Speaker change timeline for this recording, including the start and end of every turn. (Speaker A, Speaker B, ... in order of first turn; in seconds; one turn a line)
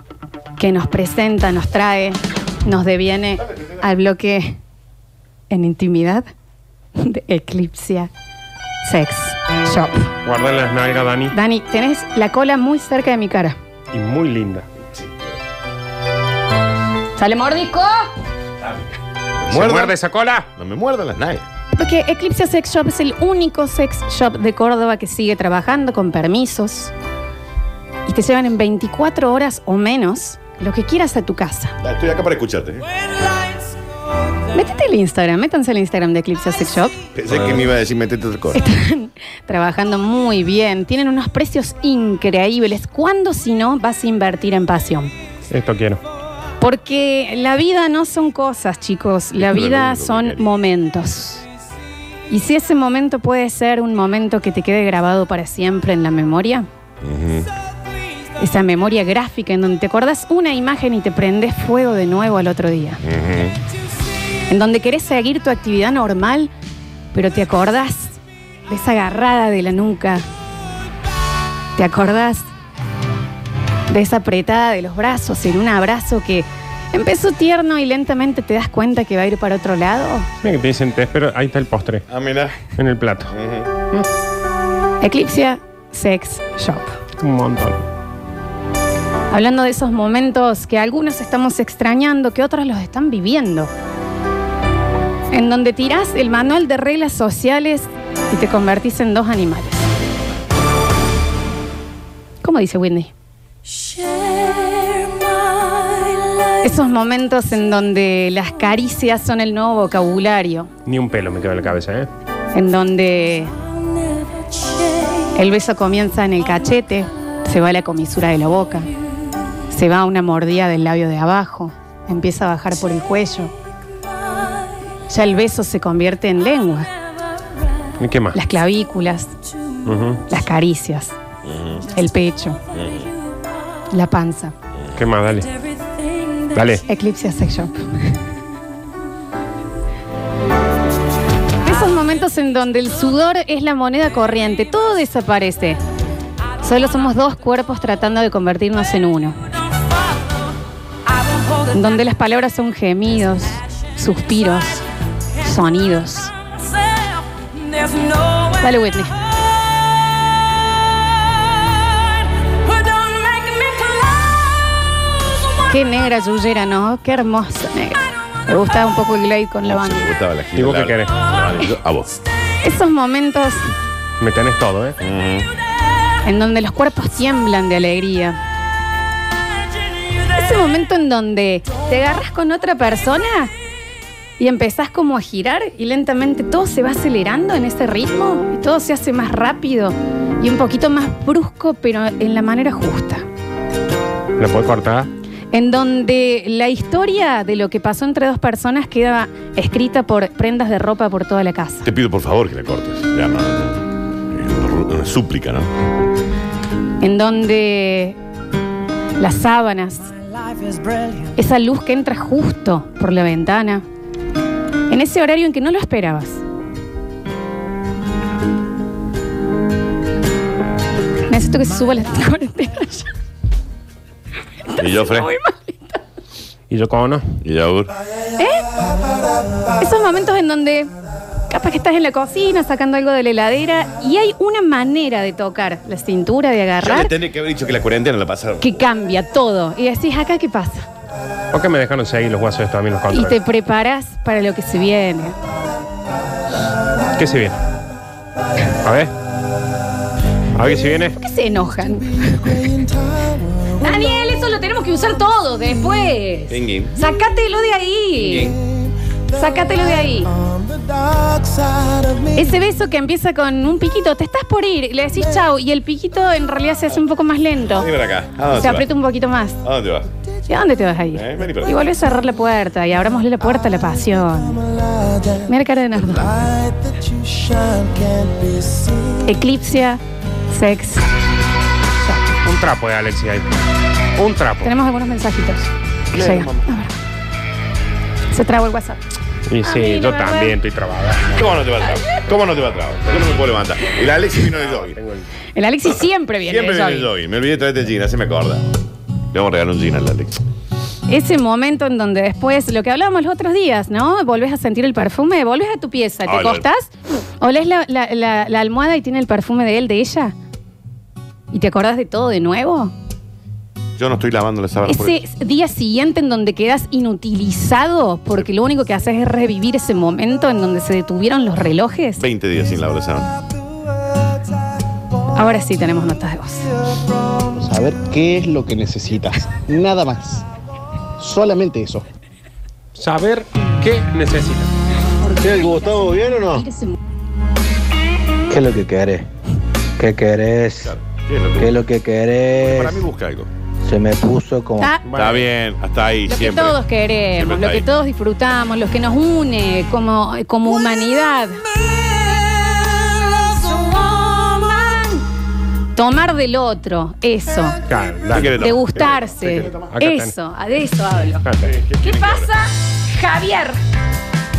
Speaker A: 0.6-4.6
Speaker A: 5.5-6.3
Speaker A: 7.0-8.1
Speaker A: 8.8-10.1
Speaker B: 10.2-11.3
Speaker A: 11.3-13.6
Speaker B: 13.9-14.6
Speaker A: 17.1-18.1
Speaker C: 19.4-19.9
Speaker B: 19.5-20.5
Speaker C: 20.6-21.4
Speaker A: 21.7-26.9
Speaker A: 28.1-31.7
Speaker C: 31.8-32.8
Speaker A: 34.5-37.0
Speaker C: 37.1-38.6
Speaker A: 38.5-45.1
Speaker B: 45.5-46.0
Speaker A: 46.6-51.4
Speaker C: 49.4-50.5
Speaker A: 52.3-56.7
Speaker C: 57.0-57.5
Speaker A: 58.4-63.0
Speaker C: 63.0-63.6
Speaker A: 64.5-66.5
Speaker A: 67.1-70.2
Speaker A: 71.8-72.5
Speaker A: 73.9-80.3
Speaker B: 80.4-82.0
Speaker C: 82.1-82.6
Speaker B: 82.7-83.3
Speaker C: 83.3-83.7
Speaker A: 85.0-87.0
Speaker B: 87.2-87.8
Speaker A: 89.3-93.7
Speaker A: 95.3-99.8
Speaker A: 102.4-103.1
Speaker A: 106.6-110.7
Speaker B: 110.8-112.1
Speaker A: 112.5-113.5
Speaker A: 115.1-118.9
Speaker A: 119.7-123.5
Speaker A: 125.1-126.9
Speaker B: 128.0-128.4
Speaker A: 128.3-129.3
Speaker B: 129.8-130.2
Speaker A: 130.3-131.1
Speaker C: 131.4-131.8
Speaker A: 131.9-132.6
Speaker C: 132.7-133.1
Speaker A: 133.9-134.5
Speaker B: 134.9-135.5
Speaker B: 136.5-136.8
Speaker A: 136.9-138.2
Speaker A: 141.6-145.8
Speaker A: 146.6-149.4
Speaker A: 151.6-154.8
Speaker A: 155.4-156.3
Speaker A: 157.8-159.2
Speaker A: 163.2-163.8
Speaker A: 165.7-170.1
Speaker C: 169.6-172.2
Speaker B: 170.5-171.3
Speaker A: 172.6-173.7
Speaker B: 174.2-174.9
Speaker C: 175.0-175.5
Speaker A: 176.2-178.4
Speaker A: 180.3-183.5
Speaker A: 184.4-193.2
Speaker B: 194.4-195.1
Speaker A: 195.5-201.9
Speaker C: 201.8-205.7
Speaker A: 207.0-208.2
Speaker A: 209.2-210.1
Speaker A: 211.3-213.8
Speaker A: 214.9-216.4
Speaker A: 221.3-223.1
Speaker A: 224.7-226.0
Speaker C: 224.8-225.3
Speaker B: 226.7-227.2
Speaker C: 227.4-227.9
Speaker A: 228.3-228.6
Speaker A: 229.8-230.9
Speaker A: 231.5-237.1
Speaker C: 236.8-238.8
Speaker A: 238.6-240.9
Speaker B: 241.5-243.4
Speaker A: 243.1-245.3
Speaker B: 247.2-247.6
Speaker B: 248.8-249.1
Speaker B: 250.5-251.2
Speaker A: 251.2-252.8
Speaker A: 253.7-258.6
Speaker C: 256.5-256.9
Speaker A: 259.3-260.3
Speaker A: 262.2-267.9
Speaker C: 267.8-268.9
Speaker A: 268.5-269.6
Speaker C: 269.6-270.1
Speaker A: 270.5-274.6
Speaker C: 271.1-271.8
Speaker A: 275.3-276.5
Speaker A: 279.1-281.1
Speaker B: 282.4-283.5
Speaker B: 284.2-284.7
Speaker A: 284.6-286.9
Speaker C: 286.1-286.6
Speaker A: 288.3-289.0
Speaker B: 289.5-291.6
Speaker A: 289.6-290.6
Speaker C: 291.3-295.0
Speaker A: 291.9-292.2
Speaker B: 294.6-295.3
Speaker A: 295.5-297.1
Speaker C: 296.4-298.7
Speaker C: 299.3-300.4
Speaker A: 301.1-310.3
Speaker C: 306.2-306.6
Speaker A: 311.5-312.9
Speaker C: 314.0-315.2
Speaker A: 314.9-322.2
Speaker C: 322.2-323.3
Speaker A: 325.3-326.6
Speaker D: 327.6-330.4
Speaker D: 331.2-332.0
Speaker B: 332.9-334.7
Speaker A: 335.2-336.9
Speaker E: 338.5-339.2
Speaker E: 340.0-340.9
Speaker C: 340.8-341.8
Speaker E: 341.6-342.9
Speaker C: 342.6-343.5
Speaker E: 343.9-344.9
Speaker A: 344.8-345.1
Speaker B: 345.0-345.5
Speaker C: 345.1-346.8
Speaker A: 346.3-355.2
Speaker C: 347.3-347.8
Speaker A: 355.9-357.8
Speaker B: 357.9-358.7
Speaker C: 358.3-359.9
Speaker A: 358.6-363.8
Speaker B: 359.5-360.3
Speaker B: 361.4-361.7
Speaker C: 361.6-362.5